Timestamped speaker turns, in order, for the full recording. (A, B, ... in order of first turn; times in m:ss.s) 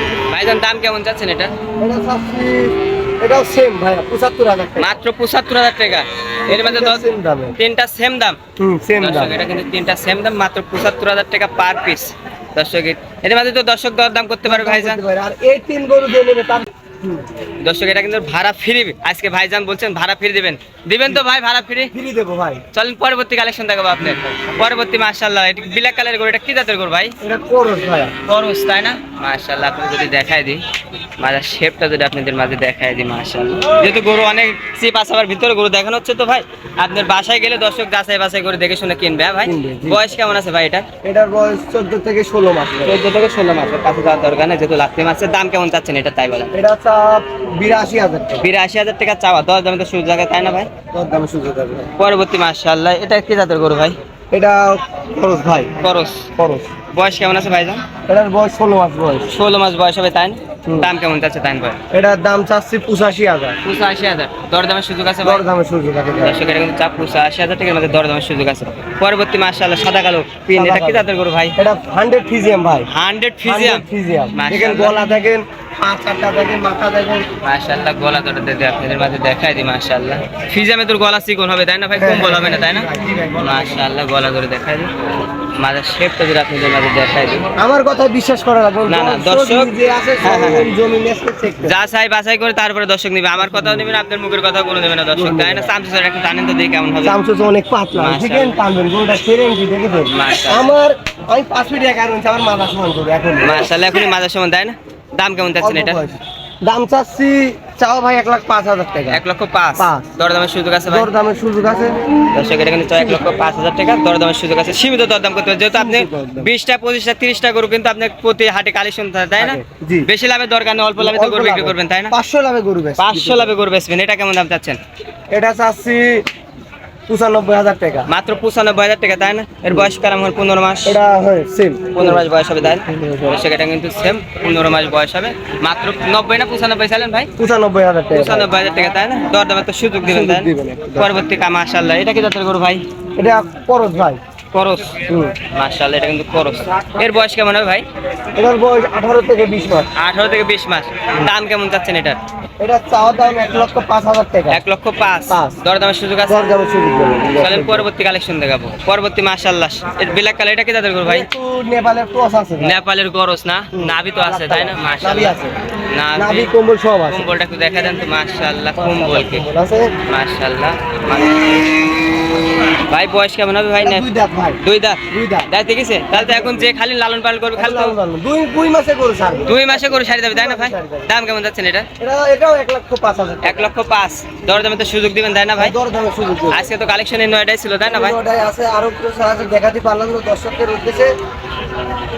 0:00.3-0:01.5 A
0:01.8-0:04.9 B
0:04.8-0:07.0 A
0:06.5-0:07.6 B
0:07.6-0:08.4 A
0:08.6-0:09.4 B
0:09.0-0:15.0 A
0:14.4-0:17.2 B
0:17.6-0:21.9 A
0:21.9-0:22.6 B
0:22.7-0:27.1 A
0:27.2-0:28.1 B
0:28.2-0:30.6 A
0:31.2-0:40.9 A
0:39.4-0:40.2 B
0:41.0-0:43.0 B
0:42.8-0:46.5 A
0:46.5-0:48.4 B
0:48.4-0:50.7 A
0:50.9-0:51.9 B
0:52.0-0:54.0 A
0:54.3-0:55.8 B
0:55.8-0:56.3 A
0:56.4-0:56.7 B
0:56.9-0:57.8 A
0:58.1-0:59.3 B
0:59.3-1:01.8 A
1:01.9-1:03.6 B
1:03.6-1:05.4 A
1:05.2-1:06.4 B
1:06.2-1:11.5 A
1:10.5-1:11.0 B
1:11.6-1:12.9 B
1:12.9-1:15.0 A
1:13.4-1:17.2 B
1:17.4-1:22.9 A
1:22.0-1:23.8 B
1:23.4-1:24.9 A
1:25.6-1:27.5 A
1:27.6-1:31.7 B
1:28.9-1:29.7 A
1:30.2-1:30.7 A
1:31.6-1:37.2 A
1:33.4-1:33.8 B
1:35.1-1:35.7 B
1:37.0-1:43.7 B
1:38.0-1:38.6 A
1:40.1-1:40.7 A
1:43.4-1:46.0 A
1:45.6-1:49.2 B
1:49.1-1:51.1 A
1:49.8-1:50.1 B
1:50.9-1:52.0 B
1:52.3-2:02.1 A
1:53.0-1:53.2 B
1:55.7-1:56.5 B
1:59.4-2:00.1 B
2:01.0-2:03.5 B
2:03.0-2:04.8 A
2:05.3-2:06.3 B
2:07.1-2:08.1 B
2:08.1-2:11.0 A
2:10.8-2:13.4 B
2:11.9-2:17.3 A
2:17.4-2:18.5 B
2:18.1-2:22.8 A
2:20.1-2:21.2 B
2:23.2-2:24.2 B
2:24.5-2:25.0 A
2:25.1-2:25.4 B
2:25.5-2:27.8 A
2:28.4-2:29.9 B
2:30.0-2:32.2 A
2:32.6-2:34.6 B
2:34.5-2:36.5 A
2:35.3-2:35.6 B
2:36.3-2:37.9 B
2:37.3-2:41.3 A
2:41.0-2:42.7 B
2:42.6-2:45.4 A
2:43.7-2:45.5 B
2:45.9-2:46.5 A
2:46.2-2:47.2 B
2:47.1-2:49.4 A
2:48.8-2:49.9 B
2:50.1-2:51.6 A
2:52.9-2:54.0 A
2:53.8-2:54.6 B
2:54.6-2:57.9 A
2:55.1-2:55.5 B
2:56.1-2:56.7 B
2:57.6-3:01.1 B
2:59.5-3:01.9 A
3:02.0-3:03.7 B
3:03.4-3:05.7 A
3:05.6-3:06.7 B
3:06.5-3:08.2 A
3:07.8-3:11.1 B